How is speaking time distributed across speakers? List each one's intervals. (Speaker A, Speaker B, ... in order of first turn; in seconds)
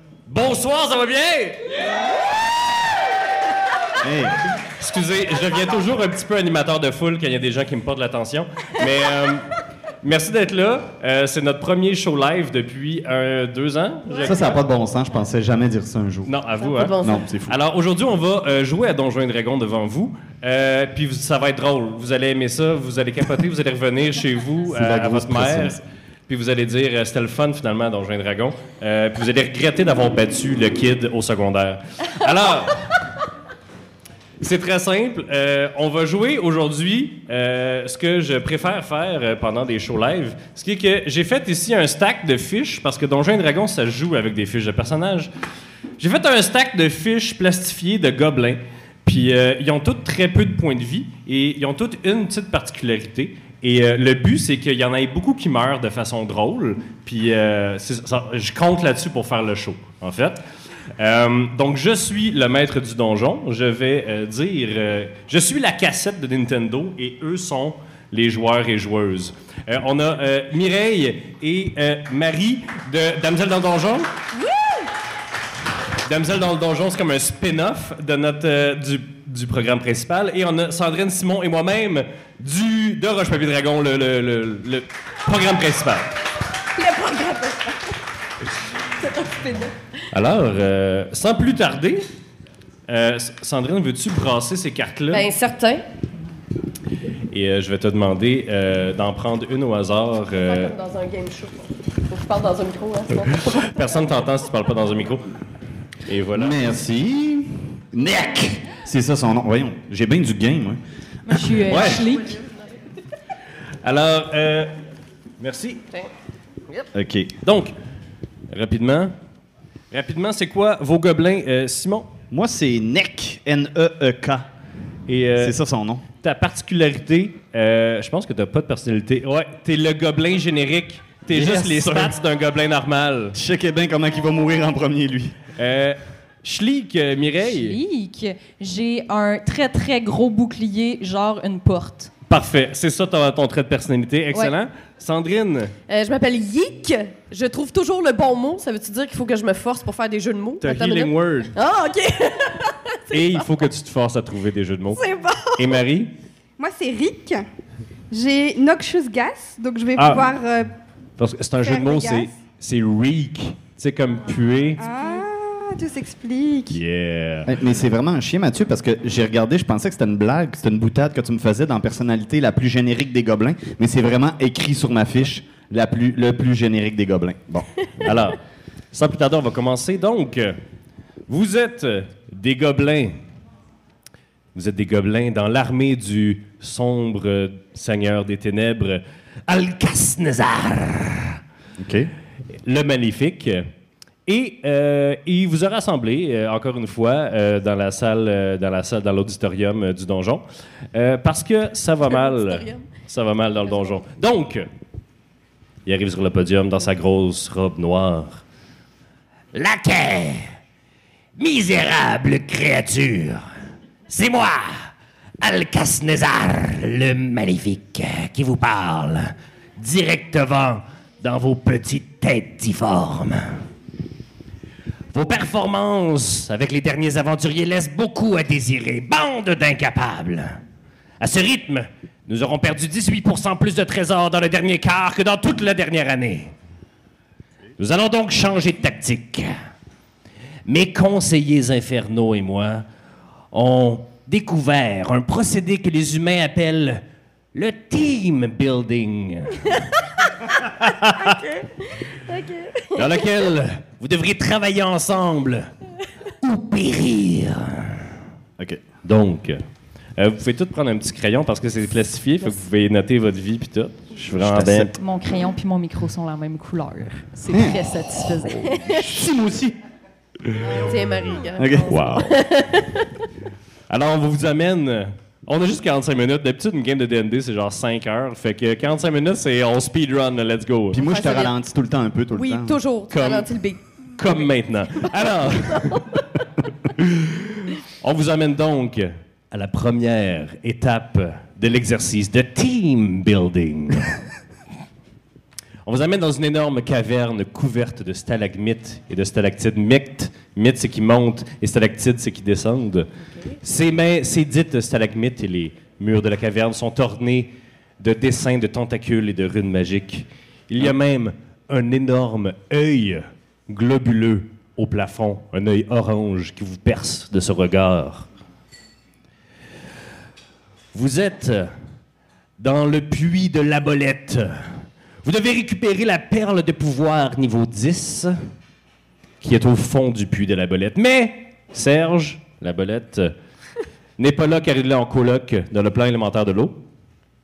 Speaker A: 0.3-1.8, 4.6-14.3, 16.2-32.9, 34.4-45.3, 46.0-60.4, 61.0-74.1, 76.0-86.1, 90.1-92.1, 92.9-95.3, 97.3-100.7, 103.3-105.3, 106.0-106.6, 111.6-112.0, 113.8-114.7, 115.4-115.8, 117.4-117.7, 118.5-119.1, 119.9-122.1, 125.1-125.5, 126.2-133.4, 135.6-137.8, 142.3-145.7, 150.6-151.5, 153.1-156.1, 159.9-160.3, 161.2-164.8, 166.7-167.5, 178.0-178.4, 178.9-180.6, 181.3-183.2, 184.5-191.4, 192.6-193.6, 194.2-204.7, 205.8-208.4, 209.5-210.5, 211.4-213.4, 214.1-214.9, 215.4-223.6, 225.1-230.6, 231.2-236.5, 237.8-239.5, 240.7-242.8, 243.5-247.0, 247.5-249.8, 250.6-251.4, 252.9-255.7, 256.4-258.0, 259.0-259.6, 260.2-264.9, 271.9-272.3, 273.9-281.0, 283.1-283.5, 284.1-286.1, 286.9-294.2, 295.8-303.1, 303.6-318.3, 320.9-321.7, 322.6-324.6, 325.2-328.4, 329.4-333.3, 334.2-336.8
Speaker B: 4.0-4.4, 14.2-16.3, 17.0-17.5, 24.7-25.8, 106.3-110.8, 116.9-117.3, 122.3-124.5, 125.4-126.0, 131.3-132.1, 133.3-135.4, 167.4-178.1, 191.8-192.1, 264.3-264.9, 267.5-267.8, 268.8-269.7, 271.6-272.0, 280.9-282.8
Speaker C: 16.6-17.2, 86.8-87.9, 89.0-89.7, 95.1-95.8, 100.4-103.6, 145.9-153.5, 155.0-155.5, 202.1-202.9, 251.2-251.7, 252.3-253.2, 268.6-269.1, 270.6-273.1, 280.9-281.5, 282.3-283.8, 285.6-286.2
Speaker D: 111.3-112.4, 137.4-142.1, 265.0-268.9
Speaker E: 155.1-155.4, 156.6-157.4, 158.1-160.7, 161.6-162.3, 164.8-166.8